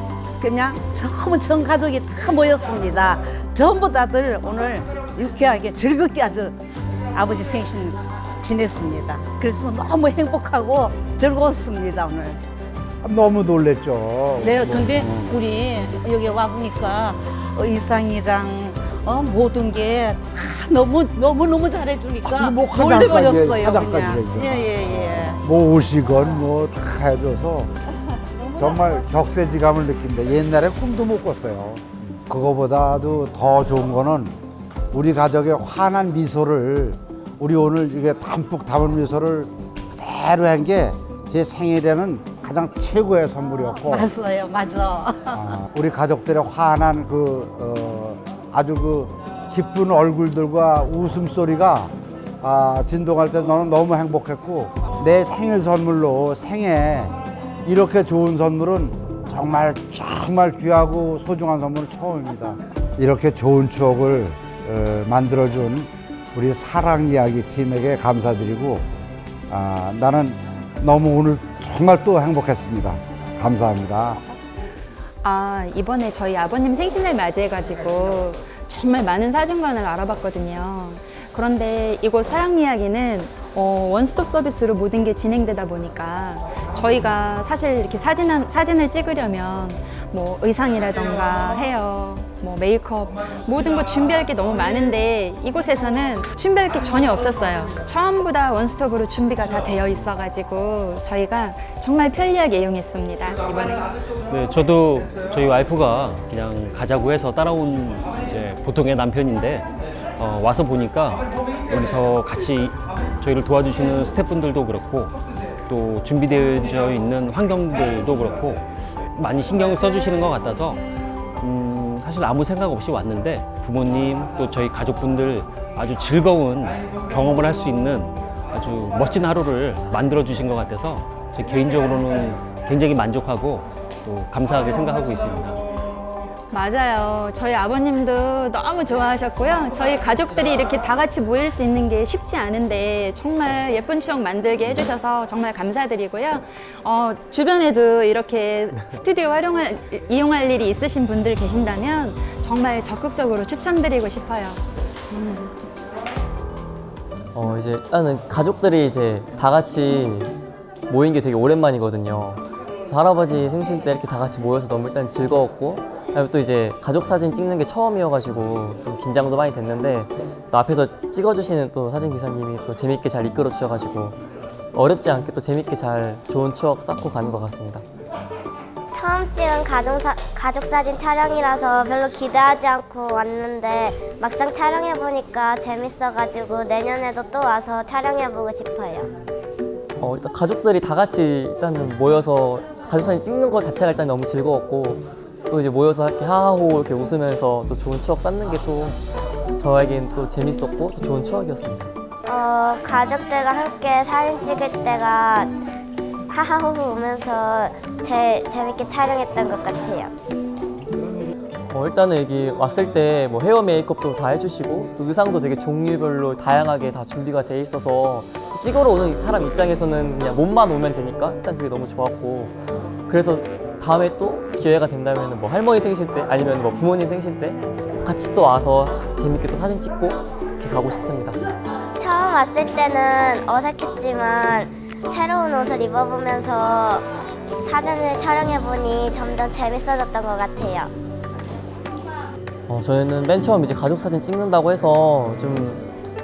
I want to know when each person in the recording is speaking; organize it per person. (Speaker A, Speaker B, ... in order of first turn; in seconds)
Speaker A: 0.4-6.6, 7.1-12.4, 14.4-25.4, 28.4-28.8, 43.8-45.4
Speaker B: 13.0-15.4, 22.2-27.7, 28.6-34.4, 34.9-44.1, 45.3-68.9, 69.5-74.2
Speaker C: 75.2-103.9, 136.5-154.6
Speaker D: 104.3-115.1, 115.7-118.6, 119.2-120.8, 121.4-135.6
Speaker E: 157.3-160.3, 160.9-174.2, 174.7-177.8, 190.0-199.0, 199.6-201.9, 211.7-222.5, 223.1-231.4, 242.7-245.8
Speaker F: 178.9-189.1, 202.3-205.5, 206.3-210.1, 232.0-237.1, 237.6-240.9